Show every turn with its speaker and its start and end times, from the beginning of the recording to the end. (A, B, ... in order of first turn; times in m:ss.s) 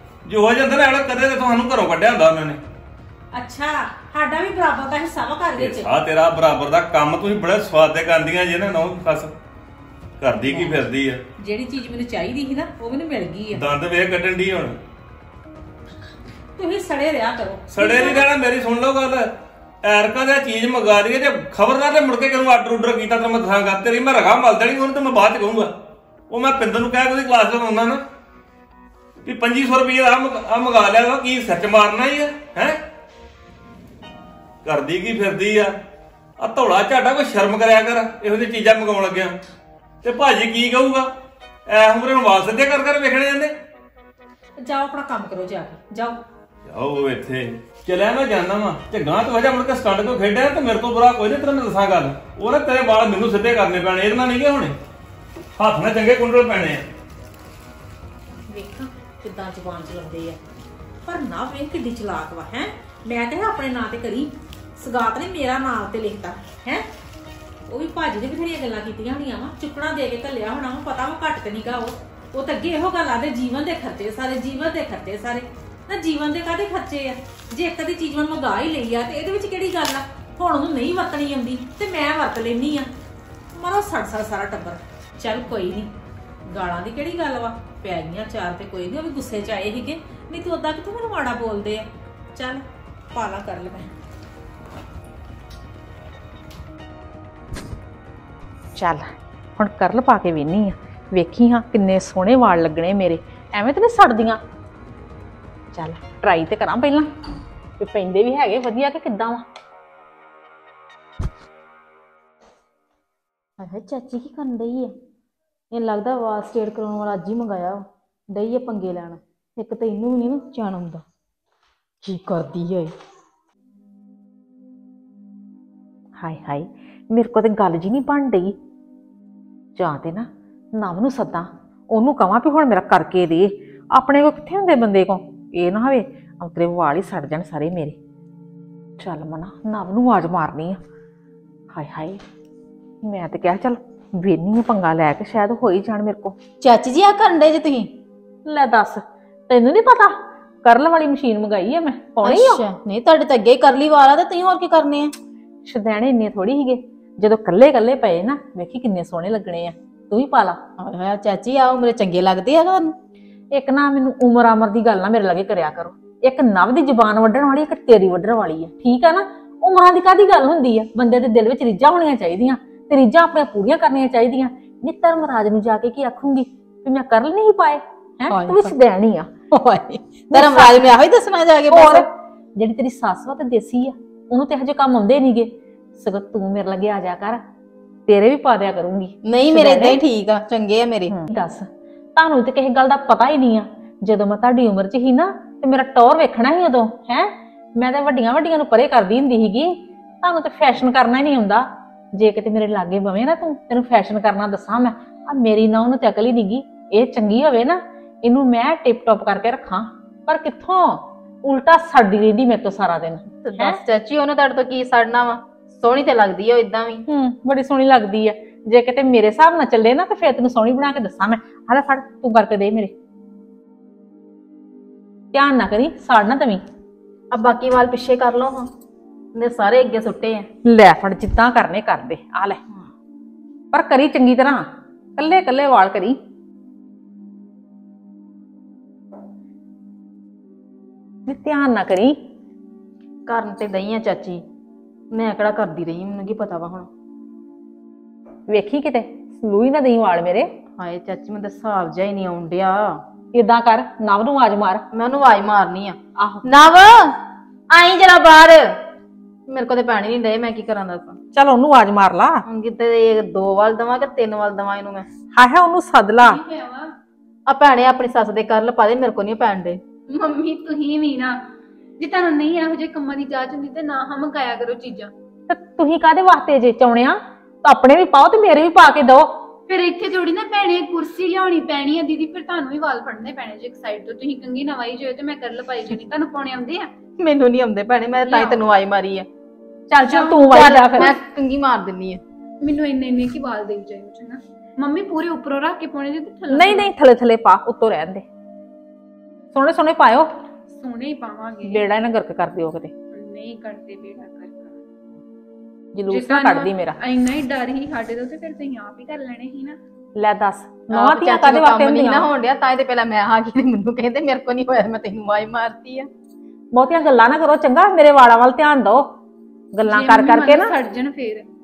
0:00.3-0:02.6 A
0:03.3-0:05.9 B
0:05.6-0:09.4 A
0:10.2-0:11.2 A
0:10.4-0:10.8 B
0:11.4-0:13.6 B
0:13.5-0:14.8 A
0:16.6-0:18.3 B
0:17.7-0:19.3 A
0:19.8-0:25.7 A
0:26.3-0:28.0 A
0:29.2-0:32.8 A
0:34.6-0:35.7 A
0:36.4-0:39.4 A
0:40.0-0:41.1 A
0:41.7-0:43.5 A
0:44.6-0:46.2 B
0:46.7-0:54.8 A
0:55.6-0:56.9 A
0:58.5-1:00.4 B
1:01.0-1:06.9 B
1:07.7-1:22.9 B
1:23.5-1:25.9 B
1:26.5-1:33.9 B
1:38.8-1:44.4 B
1:45.7-1:47.1 B
1:47.8-1:49.4 B
1:53.6-1:54.9 C
1:55.7-1:57.8 C
1:58.3-2:01.0 C
2:02.1-2:02.9 C
2:06.2-2:08.6 B
2:09.8-2:18.0 B
2:19.0-2:20.8 B
2:21.7-2:22.2 B
2:23.0-2:26.4 B
2:26.6-2:27.9 C
2:28.5-2:32.6 B
2:32.2-2:35.1 C
2:35.7-2:40.6 B
2:40.8-2:43.0 C
2:43.5-2:59.3 B
2:58.3-2:58.7 C
2:59.5-3:02.1 C
3:00.3-3:00.9 B
3:01.7-3:07.4 B
3:08.1-3:10.0 B
3:09.2-3:11.1 C
3:11.1-3:33.8 B
3:33.4-3:37.0 C
3:37.1-3:42.9 B
3:45.3-3:46.6 B
3:47.3-3:48.7 C
3:49.4-3:50.5 C
3:50.6-3:52.6 B
3:53.7-3:56.2 B
4:01.3-4:02.2 B
4:03.3-4:04.4 C
4:05.1-4:06.9 C
4:08.5-4:10.5 B
4:10.8-4:13.0 C
4:13.4-4:14.8 B
4:14.9-4:17.1 C
4:16.2-4:16.4 B
4:17.7-4:18.7 C
4:19.5-4:21.2 C
4:21.3-4:22.4 B
4:22.5-4:25.1 C
4:25.3-4:26.4 B
4:26.2-4:26.9 D
4:27.5-4:29.8 C
4:30.1-4:31.5 D
4:32.0-4:35.1 D
4:35.5-4:39.4 B
4:39.7-4:46.9 D
4:47.2-4:49.3 C
4:49.9-4:51.2 B
4:50.1-4:50.4 D
4:50.4-4:52.2 C
4:52.6-4:56.9 D
4:56.5-4:58.2 B
4:59.5-5:00.3 B
5:00.7-5:01.8 D
5:01.7-5:02.9 B
5:03.2-5:04.8 D
5:06.0-5:07.0 B
5:06.3-5:09.8 D
5:10.2-5:12.3 B
5:10.9-5:16.1 C
5:16.7-5:19.1 B
5:19.7-5:20.7 B
5:19.9-5:21.5 D